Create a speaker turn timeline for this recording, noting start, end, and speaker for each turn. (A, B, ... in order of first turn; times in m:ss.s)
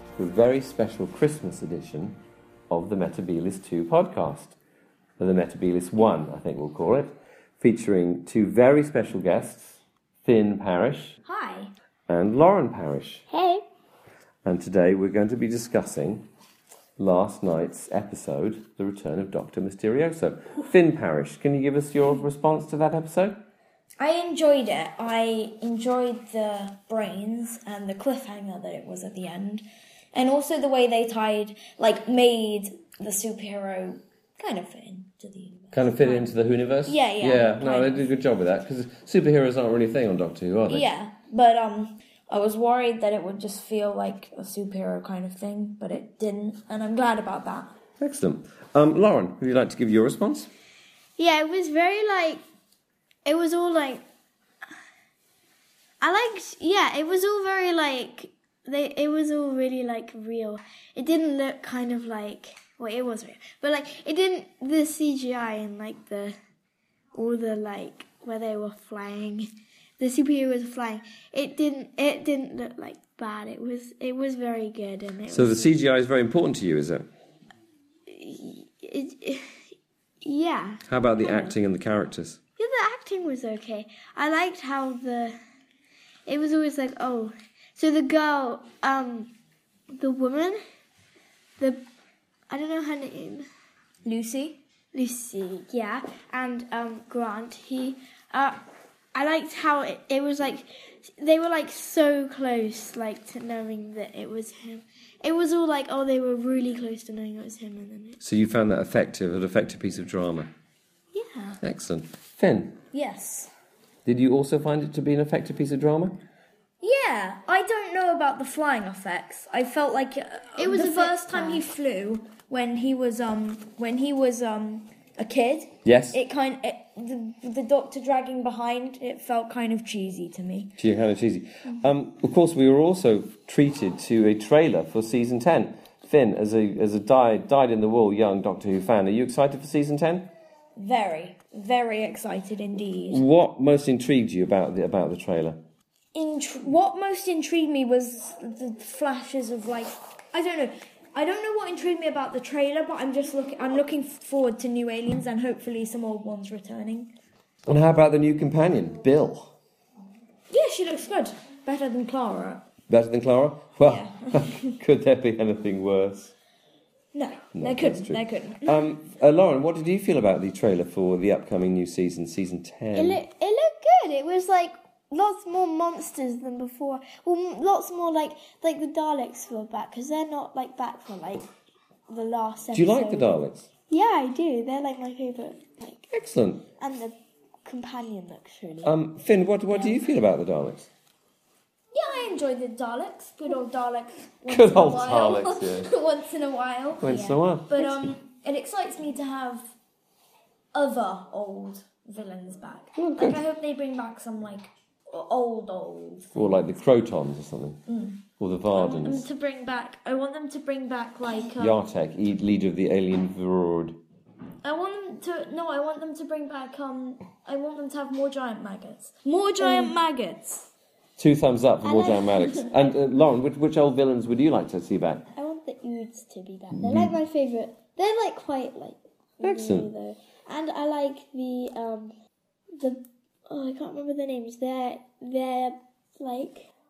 0:00.2-0:04.6 A
0:05.2-0:11.1 A
0:11.2-0:11.7 B
0:12.1-0:13.2 A
0:13.3-0:13.6 C
0:14.4-0:16.3 A
0:17.0-0:23.4 A
0:24.0-0:36.3 B
0:35.7-0:40.8 A
0:36.8-0:38.1 B
0:40.7-0:47.7 B
0:48.0-0:50.5 A
0:51.2-0:52.4 C
0:53.2-0:54.0 C
0:56.0-1:06.3 C
1:07.1-1:15.8 C
1:15.3-1:17.1 A
1:18.1-1:21.5 C
1:20.9-1:22.4 A
1:22.6-1:25.4 C
1:26.2-1:29.3 C
1:29.9-1:30.6 C
1:32.5-1:33.5 C
1:34.0-1:34.6 B
1:34.9-1:38.6 C
1:39.1-1:48.2 C
1:48.2-1:50.5 A
1:51.1-1:51.6 C
1:51.6-1:52.8 A
1:52.9-1:53.5 B
1:54.0-1:56.2 A
1:56.8-2:10.8 B
2:00.6-2:01.6 C
2:05.8-2:06.2 A
2:10.8-2:20.3 A
2:20.8-2:23.2 B
2:23.1-2:25.6 A
2:26.1-2:37.1 B
2:37.6-2:39.6 A
2:40.5-2:42.6 B
2:42.9-2:46.3 A
2:43.8-2:44.8 B
2:47.1-2:48.8 B
2:47.5-2:53.2 A
2:52.9-3:01.5 C
3:02.1-3:06.0 C
3:02.7-3:03.7 A
3:06.1-3:06.7 A
3:06.8-3:08.9 C
3:08.8-3:10.9 A
3:11.9-3:17.1 B
3:14.5-3:15.9 A
3:17.0-3:17.9 A
3:17.6-3:19.7 B
3:20.7-3:26.6 B
3:23.0-3:23.4 A
3:26.3-3:27.8 A
3:27.8-3:31.8 B
3:28.4-3:29.2 A
3:31.6-3:34.0 A
3:34.6-3:40.7 B
3:41.2-3:45.3 A
3:41.8-3:42.7 C
3:42.5-3:42.8 B
3:45.3-3:52.1 C
3:46.7-3:47.2 A
3:49.4-3:49.9 A
3:52.8-3:56.7 C